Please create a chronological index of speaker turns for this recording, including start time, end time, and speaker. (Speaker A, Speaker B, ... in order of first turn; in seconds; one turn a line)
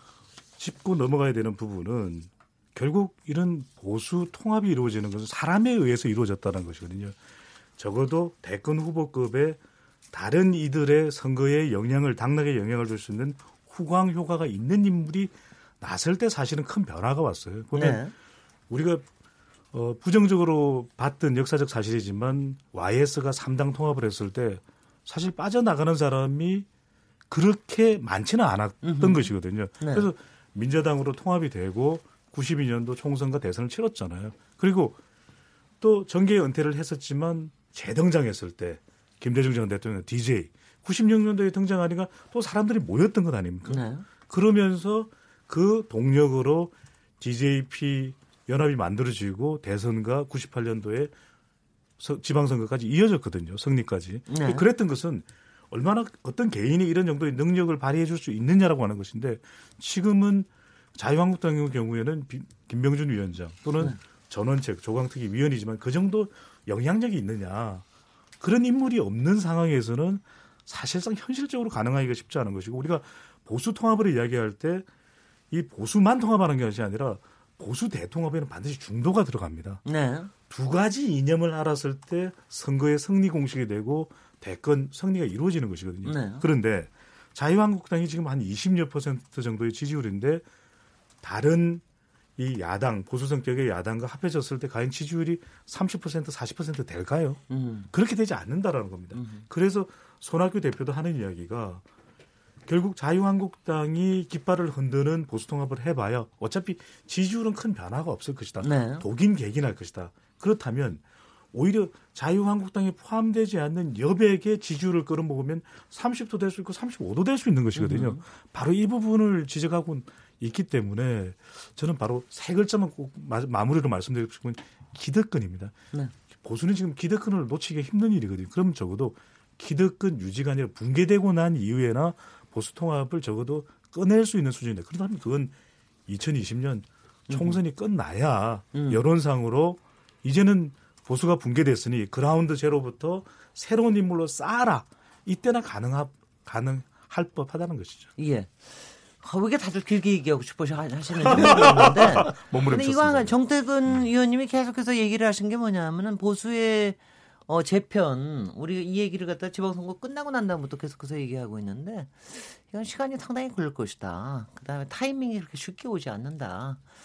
Speaker A: 0.6-7.2
Speaker A: 7.8-9.6
Speaker A: 10.1-18.0
Speaker B: 17.7-18.1
Speaker A: 18.7-19.0
Speaker A: 19.7-26.7
Speaker A: 27.3-35.0
Speaker B: 28.8-29.3
Speaker B: 29.8-30.1
Speaker A: 35.8-51.1
Speaker B: 43.7-44.0
Speaker A: 52.0-67.8
Speaker B: 54.3-54.6
Speaker A: 68.4-74.9
Speaker A: 75.5-79.8
Speaker B: 79.8-80.3
Speaker A: 80.4-90.4
Speaker B: 86.0-86.5
Speaker A: 91.2-91.8
Speaker A: 92.4-101.8
Speaker B: 97.5-97.9
Speaker B: 99.1-99.4
Speaker A: 102.7-111.0
Speaker B: 108.6-109.0
Speaker A: 111.5-125.8
Speaker B: 117.8-118.2
Speaker A: 126.4-135.5
Speaker A: 136.1-148.1
Speaker B: 137.3-137.6
Speaker B: 138.7-139.0
Speaker B: 148.2-166.8
Speaker A: 151.3-153.3